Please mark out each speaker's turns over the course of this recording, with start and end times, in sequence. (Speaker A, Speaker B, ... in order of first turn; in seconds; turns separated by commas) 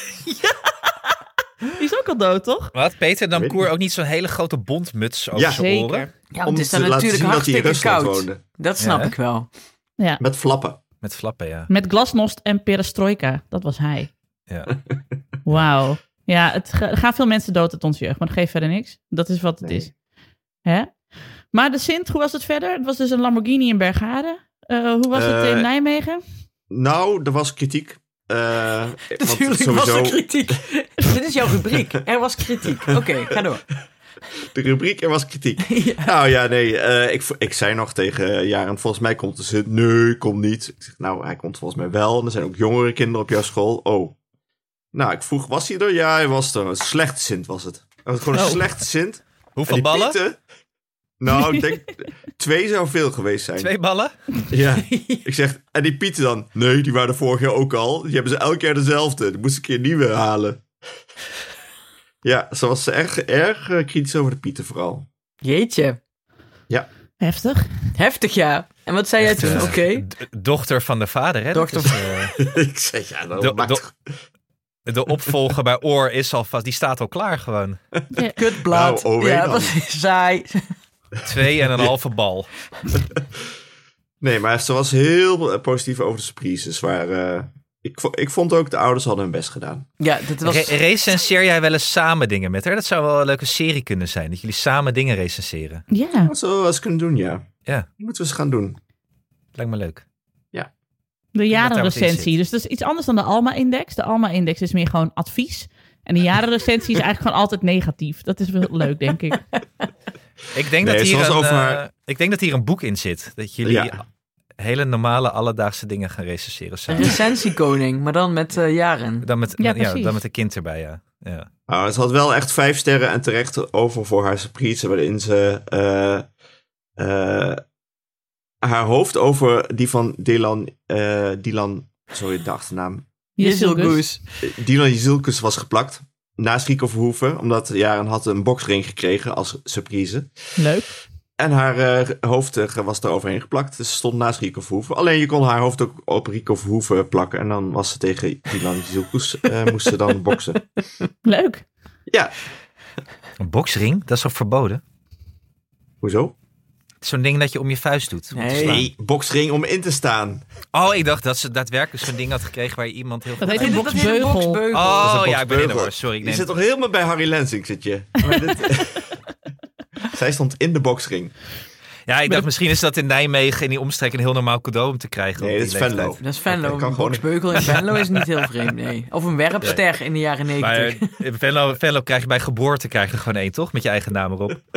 Speaker A: 0.3-0.6, Speaker A: 1.7-2.7, Speaker B: 2.7-6.1, Speaker C: 3.3-3.7, Speaker C: 5.3-5.6, Speaker A: 5.5-6.1, Speaker D: 6.3-9.5, Speaker C: 6.5-8.4, Speaker B: 8.8-9.1, Speaker C: 10.2-10.8, Speaker B: 11.0-11.7, Speaker A: 11.7-14.1, Speaker B: 14.5-14.7, Speaker A: 15.5-19.9, Speaker C: 19.6-19.9, Speaker A: 20.6-21.0, Speaker A: 21.5-26.2, Speaker C: 25.1-25.7, Speaker C: 26.7-30.6, Speaker D: 29.1-33.7, Speaker C: 32.9-33.4, Speaker C: 34.4-44.2, Speaker D: 35.7-36.2, Speaker C: 44.9-50.4, Speaker A: 48.3-48.6, Speaker B: 49.6-50.2, Speaker C: 51.2-53.7, Speaker A: 51.3-51.6, Speaker B: 53.6-54.1, Speaker C: 54.5-60.7, Speaker D: 54.9-55.2, Speaker C: 62.2-65.1, Speaker D: 65.4-66.0, Speaker A: 67.2-67.7, Speaker D: 68.0-70.1, Speaker B: 69.2-72.3, Speaker D: 71.5-72.3, Speaker C: 72.4-74.2, Speaker B: 73.4-73.8, Speaker B: 74.9-77.8, Speaker A: 78.1-78.4, Speaker D: 78.4-80.7, Speaker C: 78.7-79.8, Speaker B: 81.2-82.5, Speaker C: 83.1-83.4, Speaker C: 84.2-89.9, Speaker D: 90.0-90.8, Speaker B: 90.4-95.8, Speaker A: 95.9-96.3, Speaker C: 96.2-98.8, Speaker B: 99.6-100.0, Speaker A: 101.3-109.4, Speaker B: 101.5-102.3, Speaker B: 110.5-114.0, Speaker C: 110.8-111.8, Speaker C: 113.6-114.0, Speaker B: 114.6-117.2, Speaker D: 116.9-119.3, Speaker B: 119.2-121.5, Speaker A: 119.6-120.2, Speaker C: 121.7-126.3, Speaker C: 127.0-127.6, Speaker C: 128.6-133.1, Speaker A: 133.4-134.0, Speaker D: 133.4-134.2, Speaker C: 134.4-140.6, Speaker A: 140.6-140.9, Speaker C: 141.4-150.6, Speaker A: 151.2-151.7, Speaker C: 152.1-152.3, Speaker B: 153.4-154.8, Speaker C: 156.0-156.3, Speaker B: 157.0-158.9, Speaker D: 158.3-158.9, Speaker C: 158.6-160.4, Speaker B: 160.7-164.1, Speaker A: 163.4-164.6, Speaker D: 163.5-165.2, Speaker B: 164.7-166.5, Speaker C: 165.0-169.2, Speaker C: 170.1-171.3, Speaker B: 172.1-176.2, Speaker C: 175.4-177.3, Speaker D: 176.2-181.2, Speaker B: 180.6-184.6